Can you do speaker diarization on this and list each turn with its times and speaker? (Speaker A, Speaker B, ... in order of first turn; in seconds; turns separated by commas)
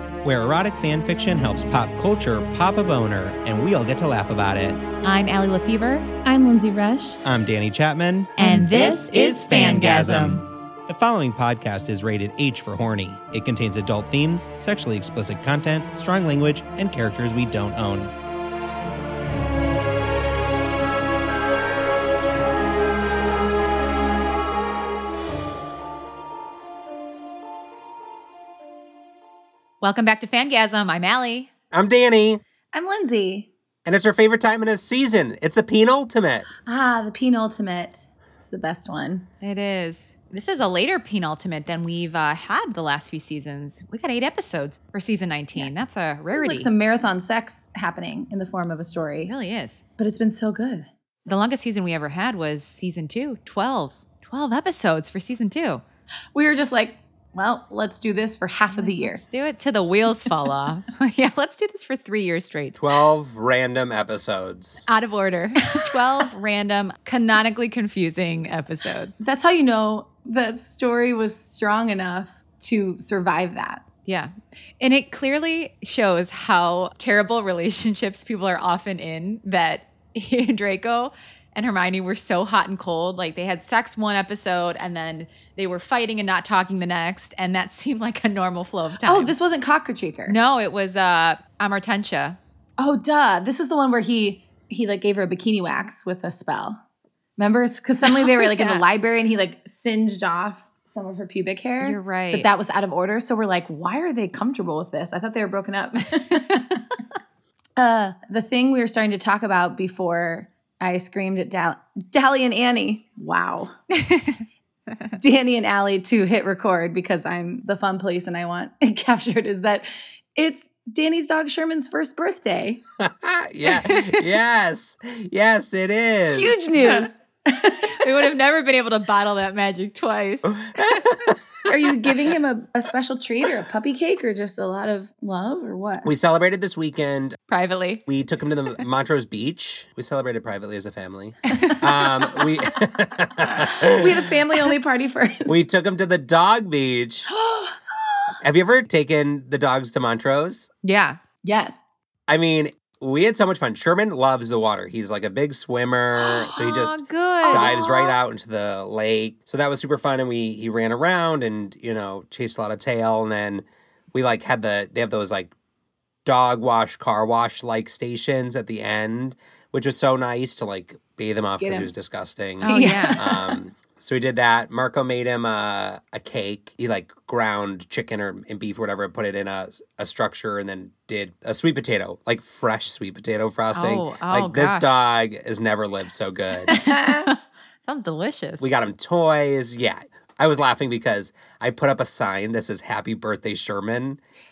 Speaker A: 0.2-4.8, Speaker B: 5.0-6.1, Speaker C: 6.2-7.2, Speaker A: 7.2-18.1, Speaker B: 8.4-10.4, Speaker B: 29.8-31.5, Speaker A: 31.7-32.4, Speaker C: 32.7-33.5, Speaker A: 33.9-36.5, Speaker C: 36.6-39.3, Speaker B: 39.4-46.7, Speaker C: 46.3-49.3, Speaker B: 49.3-49.8, Speaker C: 50.0-50.9, Speaker B: 51.3-55.8, Speaker C: 56.3-59.2, Speaker B: 58.7-62.8, Speaker A: 62.8-64.8, Speaker B: 64.9-69.2, Speaker C: 69.2-73.8, Speaker B: 74.1-89.3, Speaker C: 89.0-90.4, Speaker B: 90.3-92.4, Speaker C: 92.8-96.8, Speaker C: 97.4-106.8, Speaker B: 98.0-98.8, Speaker B: 101.8-102.5, Speaker B: 106.3-106.6, Speaker C: 107.8-113.7, Speaker B: 113.9-114.4, Speaker C: 115.2-122.8, Speaker A: 123.0-126.6, Speaker B: 123.8-124.2, Speaker C: 126.3-128.3, Speaker B: 126.8-127.1, Speaker B: 127.8-131.2, Speaker A: 130.5-131.5, Speaker C: 131.7-136.1, Speaker A: 136.1-137.4, Speaker B: 137.5-138.1, Speaker A: 138.1-144.3, Speaker B: 141.5-141.8, Speaker C: 142.0-142.5, Speaker C: 143.6-145.6, Speaker A: 145.5-147.3, Speaker C: 147.3-148.1, Speaker A: 148.4-150.7, Speaker B: 150.8-151.2, Speaker C: 151.4-151.8, Speaker A: 152.3-165.5, Speaker B: 156.5-157.7, Speaker C: 157.4-158.2, Speaker A: 166.2-186.8, Speaker C: 171.6-171.9, Speaker B: 172.6-173.2, Speaker C: 172.7-173.6, Speaker B: 183.7-184.9, Speaker B: 186.7-188.7, Speaker C: 186.8-187.3, Speaker A: 188.6-194.2